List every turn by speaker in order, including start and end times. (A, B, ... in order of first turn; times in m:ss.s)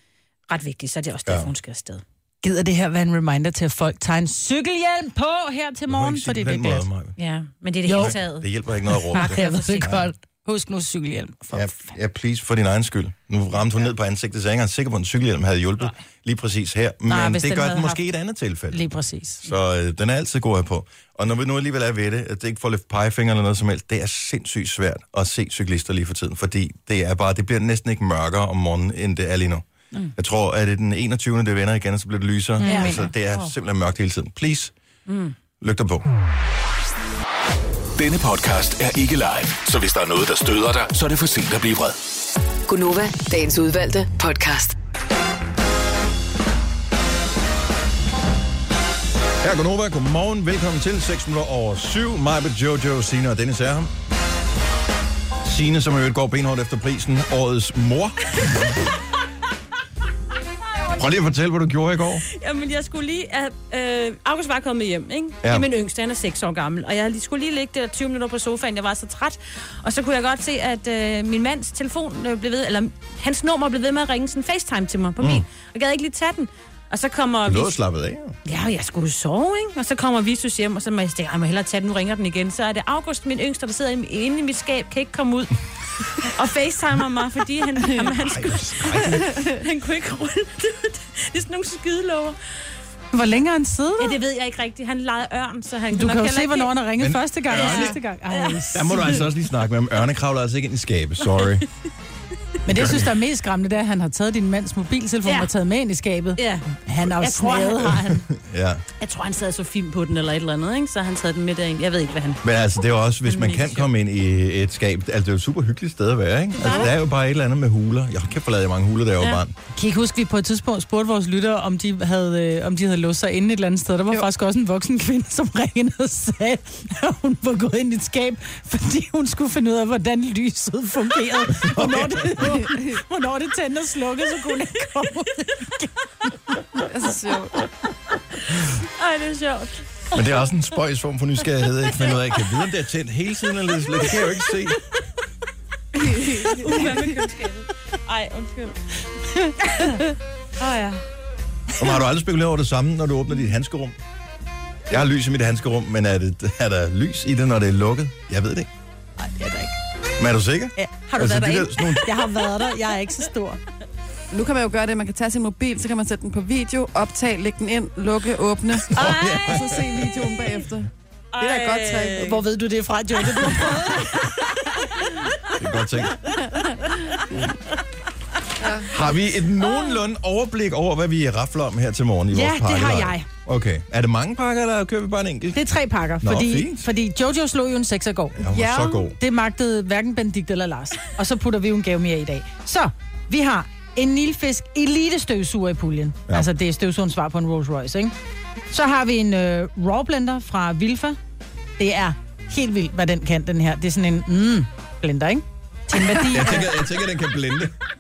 0:00.5-0:02.0 A
0:01.3-0:01.5 B
0:02.4-0:06.9 C
0:05.9-0:07.2 B
0:07.2-0:08.5 A
0:07.9-0:08.2 C
0:07.9-0:10.0 B
0:09.1-0:10.0 A
0:09.1-0:11.9 C
0:11.5-0:18.8 B
0:17.1-0:18.0 C
0:18.7-0:19.4 C
0:19.4-0:34.7 B
0:32.6-0:33.5 A
0:32.6-0:33.0 C
0:35.1-0:35.4 A
0:35.6-0:36.1 B
0:38.0-0:42.0 D
0:42.7-0:44.8 E
0:49.4-0:53.9 B
0:55.4-0:58.8 B
1:01.0-1:02.2 B
1:02.3-1:17.8 A
1:05.4-1:05.7 B
1:15.2-1:15.5 B
1:17.5-1:18.4 B
1:18.4-1:32.4 A
1:28.1-1:29.4 B
1:33.1-1:34.2 C
1:34.0-1:36.7 A
1:35.9-1:39.2 C
1:37.0-1:38.0 B
1:37.5-1:39.0 A
1:38.7-1:41.7 B
1:42.6-1:48.2 C
1:42.7-1:43.1 B
1:45.2-1:45.5 A
1:46.4-1:46.7 A
1:47.2-1:48.2 A
1:48.3-1:48.8 B
1:49.0-1:52.4 A
1:52.4-1:59.6 B
1:53.3-1:53.9 A
1:56.6-1:56.9 A
1:59.8-2:16.6 C
2:11.6-2:12.5 B
2:12.5-2:12.9 F
2:16.8-2:17.7 F
2:18.7-2:20.1 A
2:20.1-2:24.8 B
2:26.0-2:26.8 F
2:26.0-2:31.0 A
2:31.7-2:34.0 B
2:34.9-2:38.7 B
2:39.2-2:39.8 C
2:40.2-2:42.1 B
2:40.8-2:43.6 C
2:44.3-2:52.4 F
2:48.8-2:50.3 B
2:48.9-2:49.7 A
2:51.3-2:52.4 A
2:52.2-2:54.8 C
2:53.3-2:54.2 A
2:55.5-2:56.2 B
2:58.6-2:58.9 F
2:58.8-3:05.7 B
3:02.3-3:03.3 C
3:05.5-3:18.1 C
3:06.2-3:06.9 B
3:08.4-3:09.2 B
3:08.5-3:09.0 F
3:18.7-3:21.2 C
3:21.8-3:26.7 C
3:26.3-3:27.7 B